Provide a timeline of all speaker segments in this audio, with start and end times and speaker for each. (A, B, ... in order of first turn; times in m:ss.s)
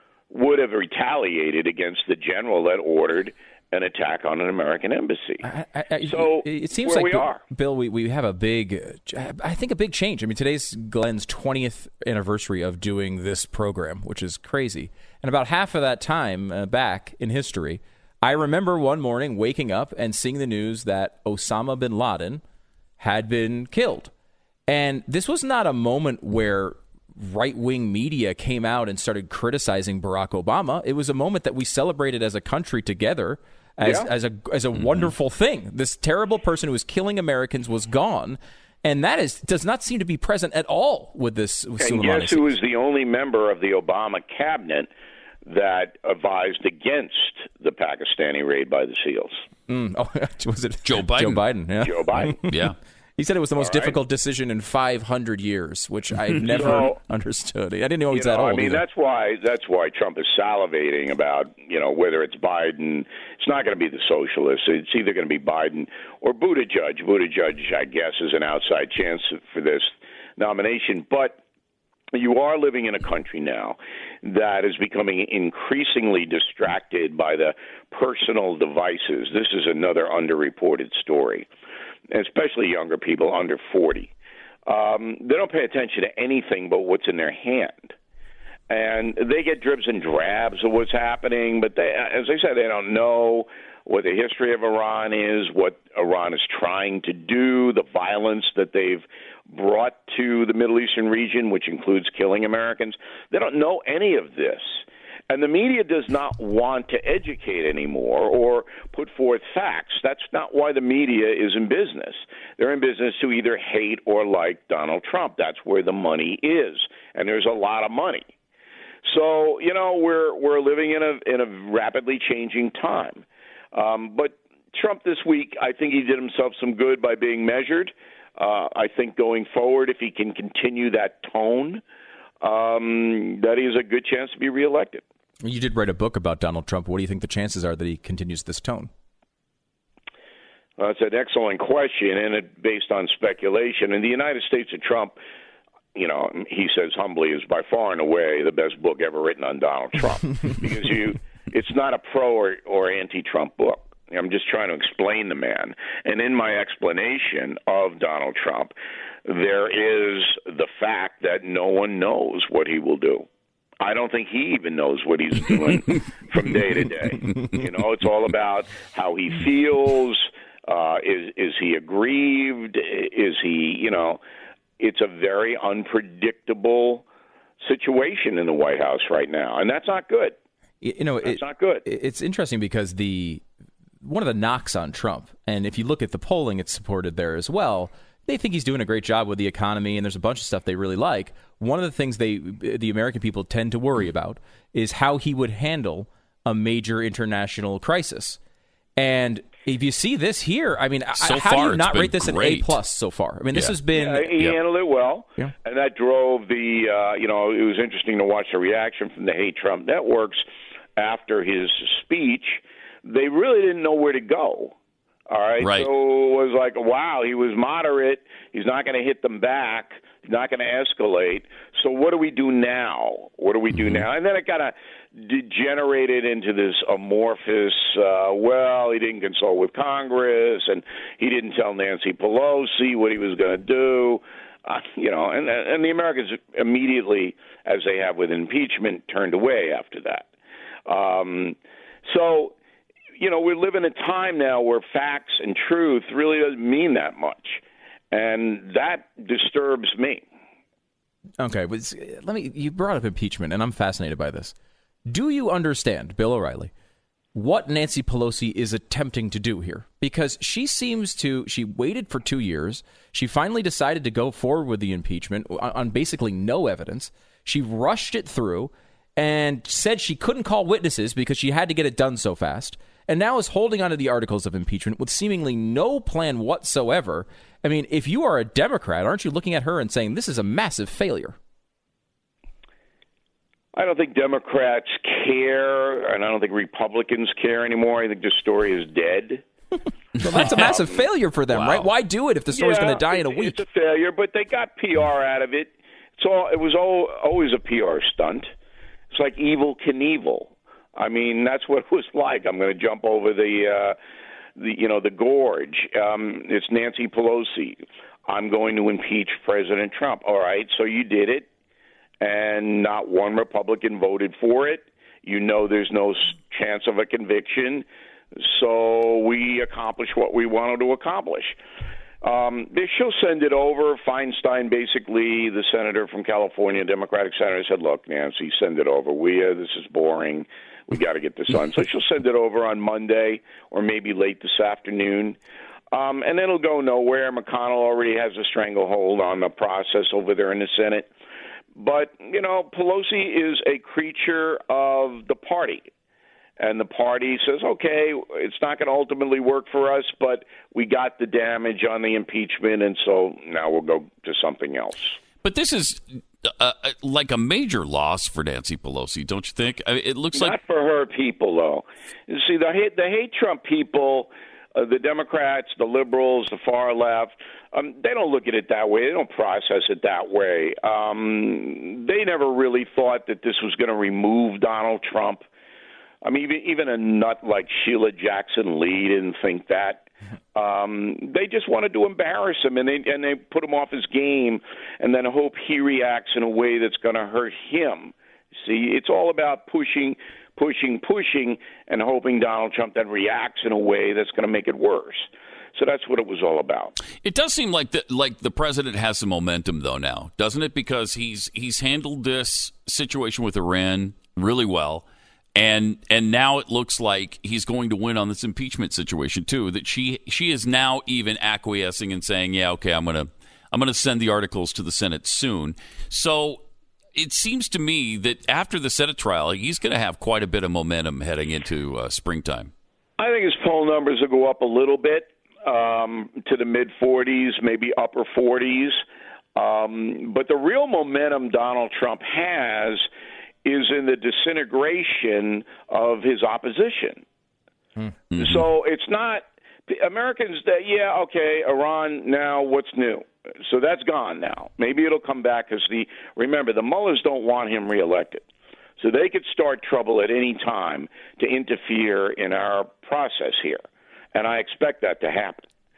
0:00.3-0:05.5 A
0:05.4-0:22.4 B
0:06.0-0:07.4 A
0:23.0-0:24.1 B
0:24.7-0:42.5 B
0:33.8-0:34.1 A
0:34.8-0:35.1 C
0:41.8-0:44.9 A
0:45.4-0:49.4 A
0:49.7-0:52.6 B
0:50.8-0:51.4 C
0:51.8-0:52.4 A
0:52.5-0:52.8 C
0:53.2-0:58.8 B
0:53.6-0:54.0 A
0:56.4-0:57.0 A
0:58.1-1:11.4 A
1:12.1-1:21.5 A
1:22.1-1:24.1 A
1:24.7-1:28.0 A
1:28.7-1:58.3 A
1:59.0-2:11.8 A
2:12.4-2:15.0 A
2:15.4-2:18.9 B
2:20.8-2:25.2 A
2:26.0-2:38.7 A
2:39.2-2:43.3 A
2:43.8-2:54.2 A
2:54.8-2:57.0 A
2:57.6-3:00.4 A
3:00.8-3:03.4 B
3:01.2-3:01.8 A
3:04.0-3:18.4 B
3:19.0-3:24.3 B
3:21.2-3:22.8 C
3:23.9-3:34.8 A
3:35.3-4:00.3 A
3:35.6-3:35.9 C
4:00.9-4:02.6 A
4:03.2-4:10.2 A
4:11.4-4:14.6 B
4:15.1-4:16.7 B
4:17.3-4:41.4 B
4:43.7-4:49.4 A
4:50.2-4:53.6 B
4:50.3-4:50.7 C
4:50.4-4:51.0 A
4:51.5-4:51.9 C
4:52.5-4:58.5 A
4:59.1-5:04.0 A
5:04.6-5:11.5 A
5:12.2-5:21.6 A
5:22.2-5:35.4 A
5:35.9-5:41.1 A
5:41.8-5:45.9 A
5:46.6-5:55.2 A
5:55.4-6:00.6 C
6:00.3-6:15.5 A
6:16.2-6:37.0 A
6:37.2-7:02.7 C
7:03.2-7:09.0 A
7:09.6-7:13.1 A
7:13.6-7:17.2 A
7:18.3-7:18.6 C
7:18.4-7:28.4 A
7:29.0-7:35.7 A